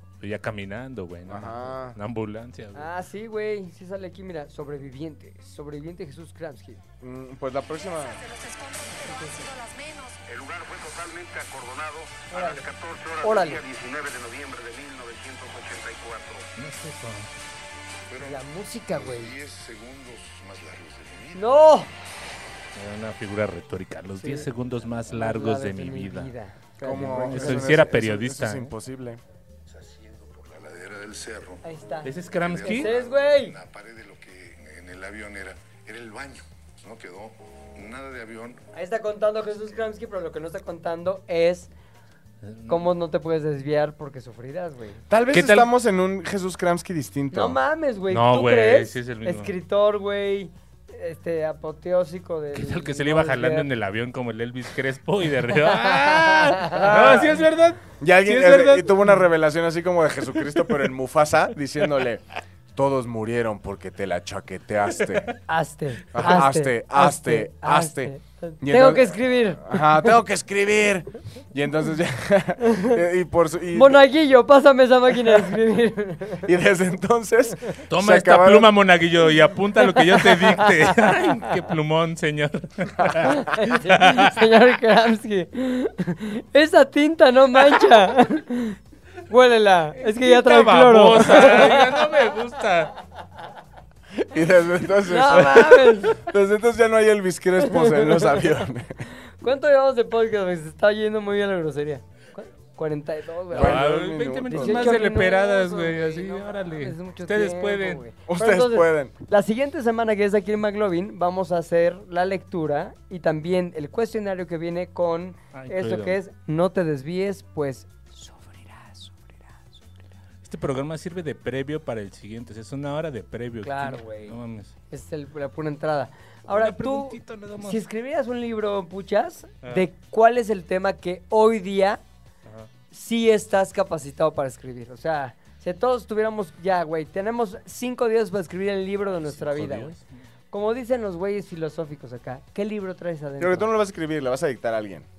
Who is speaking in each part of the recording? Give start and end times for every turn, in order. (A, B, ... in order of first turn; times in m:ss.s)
0:00.2-0:02.9 A
0:01.3-0:02.0 B
0:02.7-0:06.8 C
0:07.0-0:08.2 B
0:07.8-0:10.2 D
0:09.0-0:09.5 C
0:10.2-0:16.5 E
0:12.3-0:12.6 C
0:13.2-0:13.6 C
0:16.6-0:17.3 A
0:18.1-0:21.6 E
0:18.2-0:19.3 C
0:21.3-0:21.9 C
0:22.7-0:26.3 A
0:24.2-0:24.5 C
0:25.1-0:27.7 C
0:26.8-0:29.2 B
0:26.8-0:28.7 A
0:29.7-0:38.6 E
0:31.6-0:32.1 C
0:32.0-0:32.9 A
0:32.6-0:33.6 C
0:38.7-0:41.7 C
0:42.4-0:42.8 A
0:42.7-0:45.0 C
0:45.1-0:47.6 B
0:45.3-0:45.7 A
0:47.3-0:53.7 C
0:48.1-0:49.5 A
0:52.5-0:59.1 A
0:55.6-0:56.8 C
0:56.7-0:57.4 B
0:58.0-1:02.2 B
1:02.7-1:05.3 B
1:05.0-1:05.3 A
1:05.5-1:10.1 C
1:06.1-1:14.0 B
1:12.6-1:13.0 C
1:13.7-1:16.5 C
1:16.4-1:18.7 B
1:17.9-1:24.4 A
1:19.8-1:21.2 C
1:23.2-1:28.8 C
1:29.3-1:32.2 C
1:30.0-1:32.9 A
1:34.2-1:39.0 B
1:35.0-1:36.2 C
1:37.6-1:38.6 C
1:39.2-1:43.9 C
1:43.5-1:48.0 A
1:43.5-1:45.0 B
1:44.5-1:59.8 C
1:48.3-1:49.1 B
1:55.5-1:56.2 A
2:00.4-2:04.7 A
2:03.6-2:04.4 C
2:04.9-2:12.0 C
2:06.5-2:07.8 A
2:12.9-2:19.9 C
2:19.2-2:20.1 A
2:20.5-2:23.7 C
2:23.4-2:25.0 B